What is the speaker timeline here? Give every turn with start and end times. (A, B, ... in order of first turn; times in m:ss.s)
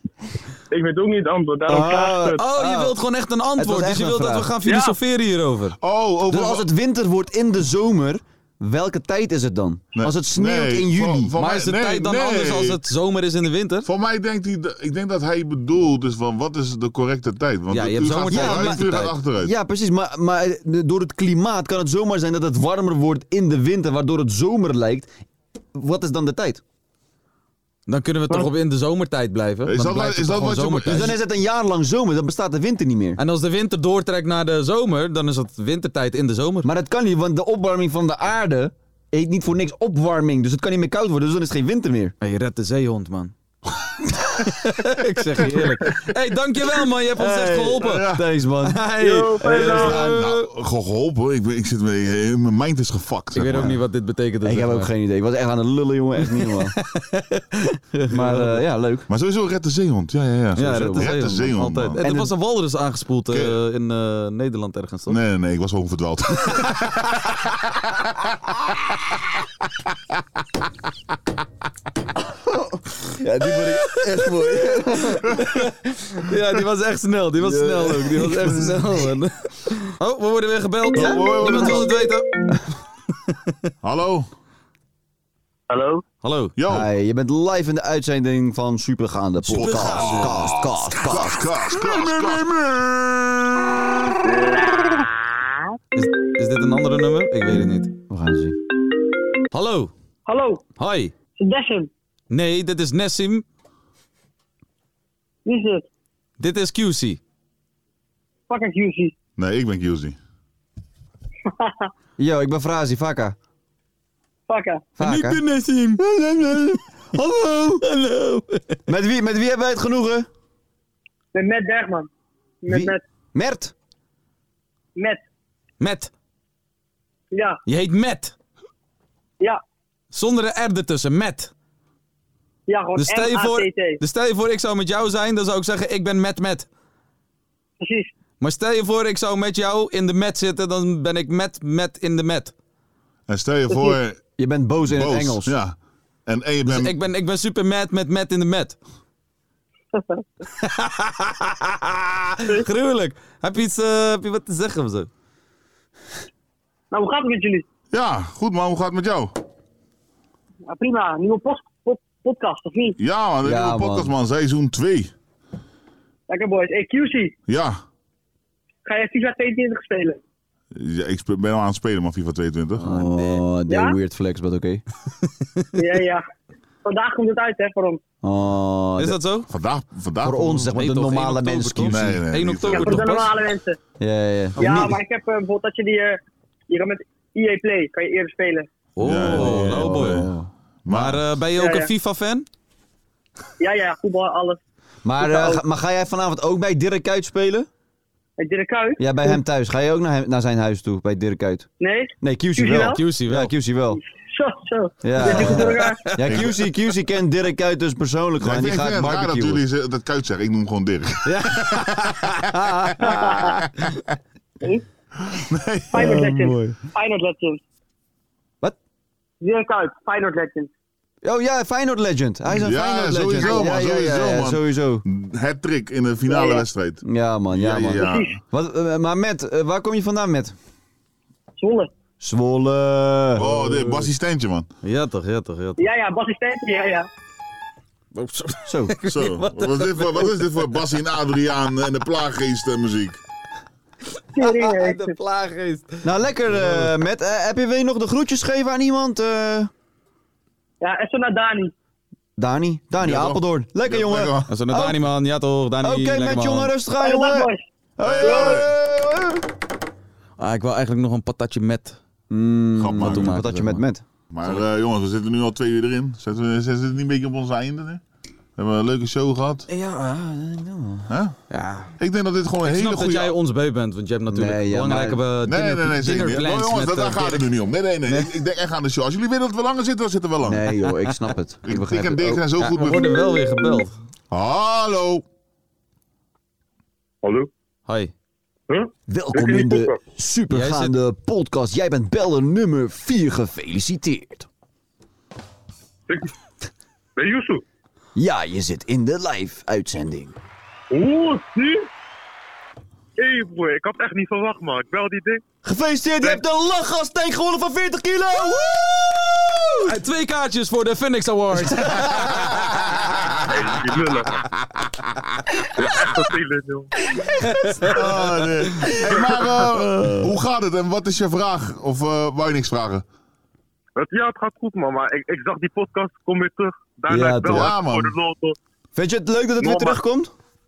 0:00.7-0:02.4 A
0:01.7-0:03.0 B
0:02.4-0:05.8 C
0:03.6-0:04.5 B
0:04.6-0:05.0 A
0:05.8-0:06.7 D
0:06.3-0:11.3 B
0:10.0-0:12.8 D
0:11.4-0:13.9 C
0:13.8-0:19.5 D
0:17.7-0:19.2 C
0:18.3-0:25.1 B
0:25.7-0:26.6 B
0:27.9-0:31.1 C
0:29.6-0:31.2 D
0:30.9-0:33.2 B
0:33.2-0:36.7 C
0:36.6-0:42.1 B
0:42.2-0:43.3 C
0:44.4-0:48.1 C
0:45.4-0:46.1 D
0:47.2-0:48.9 B
0:47.8-0:48.2 D
0:48.6-0:50.5 C
0:49.0-0:50.0 A
0:49.4-0:50.2 B
0:49.5-0:53.8 D
0:53.3-0:54.9 C
0:54.4-0:56.7 B
0:56.2-0:58.6 C
0:58.1-0:59.1 B
0:59.1-1:02.0 D
1:00.6-1:05.2 C
1:00.7-1:01.1 B
1:02.0-1:02.3 B
1:05.1-1:07.0 D
1:12.3-1:15.2 B
1:13.6-1:22.3 C
1:17.4-1:18.8 B
1:20.9-1:21.9 B
1:20.9-1:21.9 D
1:23.8-1:24.3 D
1:25.7-1:26.0 A
1:26.2-1:26.5 C
1:26.6-1:26.9 D
1:26.6-1:33.4 B
1:29.5-1:32.6 D
1:29.5-1:30.6 C
1:36.0-1:37.9 C
1:38.1-1:38.6 B
1:39.5-1:39.9 C
1:40.2-1:40.6 E
1:40.8-1:41.1 C
1:41.4-1:41.9 E
1:42.3-1:43.4 C
1:45.4-1:45.8 E
1:46.4-1:47.2 C
1:48.5-1:49.1 E
1:49.4-1:50.2 D
1:51.5-1:51.9 E
1:52.2-1:53.4 B
1:54.5-1:54.8 E
1:55.0-1:55.4 B
1:55.0-1:56.0 C
1:56.0-1:57.8 B
1:57.8-1:58.8 C
1:58.9-2:00.3 B
2:01.3-2:02.1 E
2:02.6-2:03.0 E
2:02.7-2:03.7 B
2:05.0-2:05.2 E
2:05.8-2:06.1 C
2:07.3-2:07.6 E
2:07.6-2:08.3 C
2:10.1-2:11.5 C
2:12.7-2:14.0 E
2:12.9-2:16.6 C
2:17.8-2:18.1 E
2:18.4-2:22.5 C
2:23.3-2:24.2 D
2:24.4-2:25.5 B
2:24.8-2:26.9 D
2:26.7-2:28.8 C
2:29.9-2:30.2 E
2:30.6-2:35.1 C
2:36.9-2:37.6 E
2:37.9-2:39.3 D
2:40.7-2:43.0 E
2:43.0-2:45.1 D
2:43.4-2:44.1 B
2:46.3-2:47.3 E
2:47.5-2:47.8 D
2:48.8-2:50.2 E
2:50.7-2:53.0 D
2:52.8-2:54.8 B
2:53.7-2:54.0 E
2:55.8-2:56.2 E
2:56.8-2:58.0 E
2:58.2-2:59.2 B
2:59.0-2:59.5 C
2:59.5-3:00.6 D
3:00.2-3:02.2 B
3:00.6-3:03.3 C
3:01.8-3:03.2 D
3:02.7-3:03.8 E
3:04.0-3:05.0 B
3:04.6-3:06.2 E
3:04.6-3:04.9 C
3:06.7-3:08.7 E
3:09.0-3:10.2 C
3:09.0-3:10.3 D
3:09.0-3:10.5 B
3:10.8-3:11.3 D
3:10.9-3:12.4 C
3:11.6-3:11.9 E
3:13.6-3:14.6 E
3:15.0-3:17.7 B
3:15.2-3:15.6 E
3:18.4-3:19.4 E
3:19.0-3:21.7 B
3:21.8-3:23.0 E
3:22.2-3:24.0 B
3:22.8-3:23.5 C
3:23.9-3:26.1 E
3:25.0-3:29.6 B
3:25.2-3:26.5 C
3:26.2-3:26.5 D
3:28.4-3:32.4 D
3:31.3-3:32.2 C
3:33.0-3:33.6 D
3:33.2-3:33.5 E
3:35.2-3:36.3 D
3:35.9-3:37.6 E
3:35.9-3:36.8 B
3:39.4-3:40.7 E
3:41.2-3:45.0 B
3:42.5-3:48.4 D
3:46.2-3:46.6 E
3:47.0-3:50.5 B
3:48.0-3:48.4 E
3:51.6-3:51.9 E
3:52.2-3:54.1 B
3:53.4-3:54.7 D
3:54.8-3:55.8 C
3:55.8-3:57.1 E
3:58.1-4:00.6 C
3:58.6-3:58.9 B
3:59.1-4:03.2 D
4:04.4-4:05.2 E
4:04.4-4:06.9 C
4:06.0-4:09.7 B
4:10.8-4:11.7 E
4:12.4-4:15.0 B
4:13.0-4:14.5 D
4:14.5-4:16.8 C
4:15.8-4:19.4 B
4:17.0-4:17.6 E
4:18.0-4:18.7 D
4:20.4-4:22.0 C
4:22.3-4:24.0 B
4:22.8-4:23.4 D
4:23.0-4:23.8 C
4:24.3-4:28.0 D
4:28.6-4:29.6 D
4:29.7-4:31.1 B
4:31.1-4:31.4 D
4:31.5-4:31.9 C
4:32.0-4:33.3 D
4:32.6-4:37.5 C
4:34.3-4:35.2 B
4:35.4-4:40.7 D
4:38.1-4:38.3 C
4:40.4-4:42.4 B
4:41.6-4:43.3 D
4:42.6-4:43.9 C
4:44.3-4:45.2 D
4:47.2-4:47.5 A
4:47.9-4:48.1 C
4:48.7-4:50.0 A
4:49.1-4:54.5 B
4:50.5-4:50.9 C
4:57.2-4:57.6 A
4:58.2-5:00.4 B
5:00.9-5:01.9 A
5:03.2-5:05.4 A
5:05.6-5:09.9 B
5:09.9-5:12.7 C
5:11.5-5:12.5 B
5:12.6-5:13.6 D
5:13.5-5:14.3 A
5:15.8-5:16.9 A
5:17.2-5:20.3 B
5:17.4-5:17.9 C
5:17.9-5:23.0 D
5:24.0-5:28.6 A
5:27.1-5:27.7 B
5:27.5-5:28.2 D
5:28.9-5:30.3 B
5:29.6-5:30.0 A